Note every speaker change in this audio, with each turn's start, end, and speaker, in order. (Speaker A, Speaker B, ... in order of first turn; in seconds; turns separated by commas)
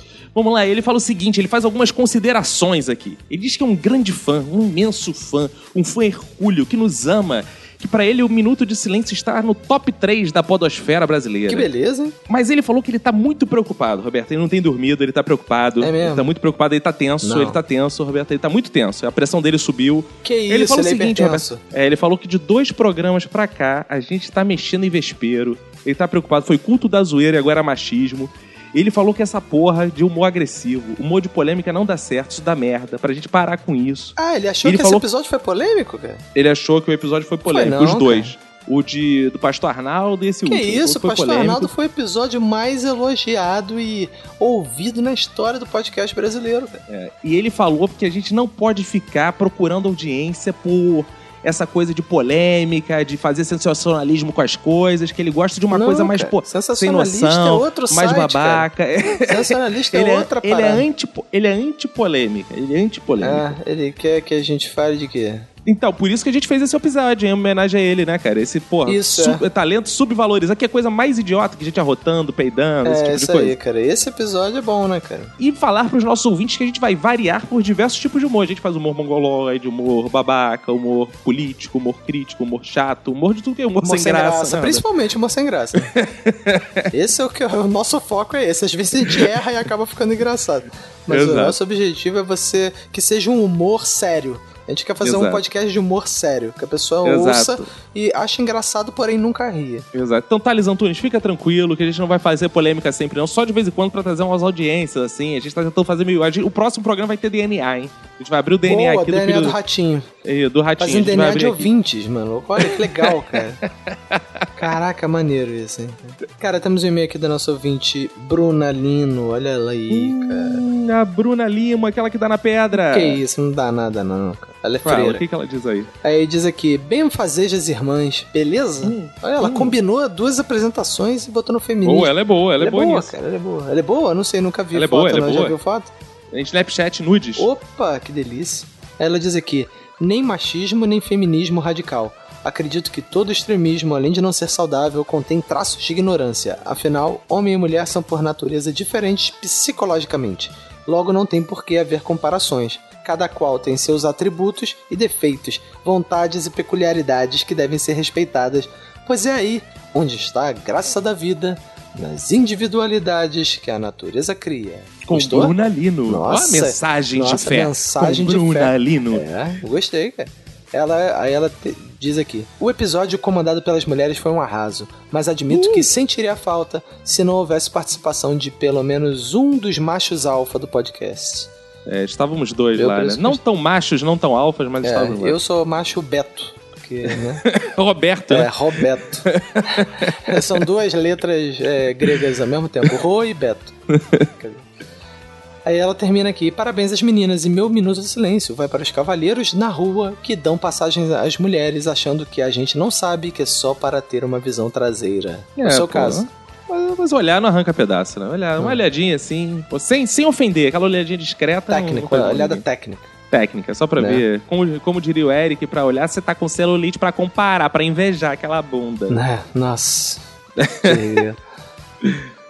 Speaker A: 0.3-11.7, Speaker B: 11.5-12.2, Speaker A: 12.3-35.0, Speaker B: 15.8-16.3, Speaker B: 17.2-17.6, Speaker B: 20.2-21.6, Speaker B: 34.2-36.2, Speaker A: 36.4-41.7, Speaker B: 37.5-38.3, Speaker B: 40.5-46.8, Speaker A: 46.9-63.5, Speaker B: 55.7-58.7, Speaker B: 59.2-60.9, Speaker B: 63.2-65.5, Speaker A: 65.7-73.6, Speaker B: 68.8-69.4, Speaker B: 72.8-75.3, Speaker A: 75.4-84.8, Speaker B: 83.8-85.9, Speaker A: 85.8-86.9, Speaker B: 86.9-99.9, Speaker A: 89.0-89.3, Speaker A: 91.1-91.6, Speaker A: 95.0-95.4, Speaker A: 97.0-97.7, Speaker A: 99.9-109.6, Speaker B: 108.7-110.1, Speaker A: 110.2-111.7, Speaker B: 110.8-113.6, Speaker A: 112.6-113.2, Speaker A: 113.9-114.7, Speaker B: 114.6-120.6, Speaker A: 119.9-123.2, Speaker B: 122.8-125.2, Speaker A: 124.8-125.9, Speaker B: 126.0-135.9, Speaker A: 128.8-129.8, Speaker A: 131.8-133.1, Speaker A: 134.7-135.6, Speaker A: 136.3-137.5, Speaker B: 137.4-181.5, Speaker A: 165.0-169.3, Speaker A: 175.5-175.9, Speaker A: 181.9-185.4, Speaker B: 182.8-183.4, Speaker B: 184.8-187.4, Speaker A: 187.4-190.7, Speaker B: 188.3-189.2, Speaker B: 190.3-193.8, Speaker A: 193.9-194.3, Speaker B: 194.4-194.7, Speaker B: 195.7-206.3, Speaker A: 205.6-212.6, Speaker B: 211.7-213.1, Speaker A: 213.3-219.2, Speaker B: 214.0-214.2, Speaker B: 219.1-220.2, Speaker A: 220.6-221.2, Speaker B: 220.8-221.4